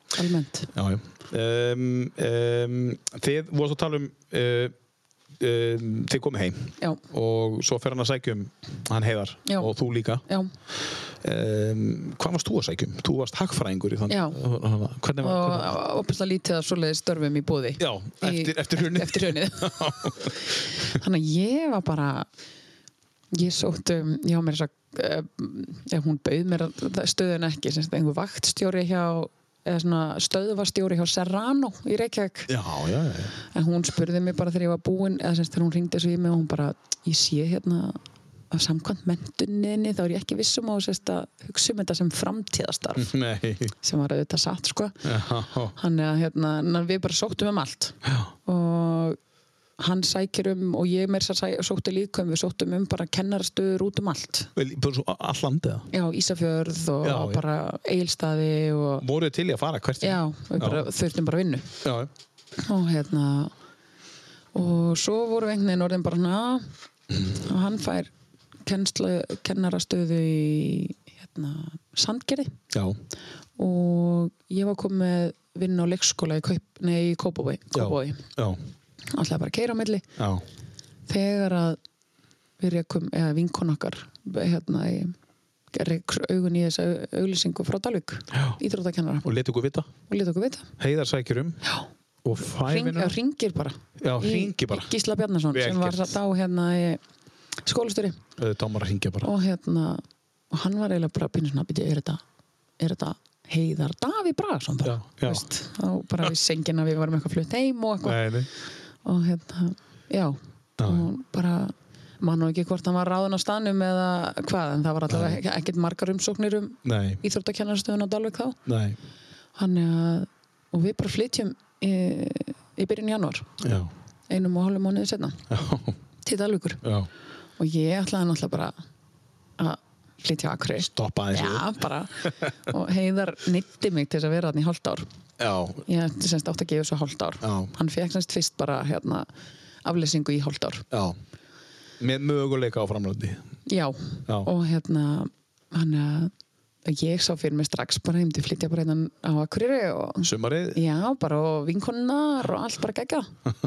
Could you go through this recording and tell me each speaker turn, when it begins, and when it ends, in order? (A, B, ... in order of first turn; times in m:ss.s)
0:00.1-0:00.7 A
0:00.7-0:04.7 B
0:05.4-0:10.2 B
0:09.4-0:09.7 A
0:10.8-0:15.8 B
0:14.1-0:14.4 A
0:15.2-0:19.9 A
0:17.8-0:20.5 B
0:20.8-0:22.3 A
0:23.3-0:32.5 A
0:32.5-0:33.3 B
0:33.5-0:38.0 A
0:38.5-0:43.1 A
0:43.0-0:43.7 B
0:43.8-0:45.0 A
0:45.0-0:45.7 B
0:45.8-0:49.2 A
0:48.0-0:48.3 B
0:49.8-0:54.5 A
0:54.5-0:55.9 B
0:55.9-0:59.0 A
0:57.0-0:57.4 B
0:59.0-1:00.8 B
1:00.0-1:01.7 A
1:01.8-1:02.1 B
1:02.6-1:03.5 A
1:04.5-1:06.7 A
1:07.2-1:08.1 A
1:08.6-1:12.6 A
1:12.7-1:13.0 B
1:13.6-1:18.2 A
1:17.7-1:18.6 B
1:19.1-1:20.0 A
1:20.2-1:20.4 B
1:21.1-1:21.8 A
1:22.6-1:25.1 A
1:25.7-1:29.3 A
1:29.2-1:29.9 B
1:30.1-1:30.7 A
1:30.8-1:31.6 B
1:32.2-1:33.2 B
1:32.4-1:37.0 A
1:34.0-1:34.9 B
1:35.5-1:36.2 B
1:37.6-1:38.2 A
1:38.4-1:39.3 B
1:39.2-1:42.2 A
1:42.8-1:48.3 A
1:44.8-1:45.4 B
1:48.0-1:48.5 B
1:49.0-1:58.6 A
1:50.8-1:51.1 B
1:55.1-1:55.4 B
1:56.8-1:57.2 B
1:58.6-1:59.0 B
1:59.6-2:03.5 A
2:03.6-2:03.9 B
2:04.3-2:05.4 A
2:05.5-2:05.9 B
2:06.2-2:06.8 A
2:06.8-2:07.1 B
2:07.6-2:08.7 A
2:09.6-2:15.0 A
2:10.8-2:12.3 B
2:15.4-2:15.8 B
2:15.9-2:19.3 A
2:17.4-2:17.7 B
2:19.8-2:20.8 A
2:20.9-2:21.2 B
2:22.0-2:23.4 B
2:23.6-2:26.3 A
2:26.8-2:33.3 A
2:30.2-2:30.8 B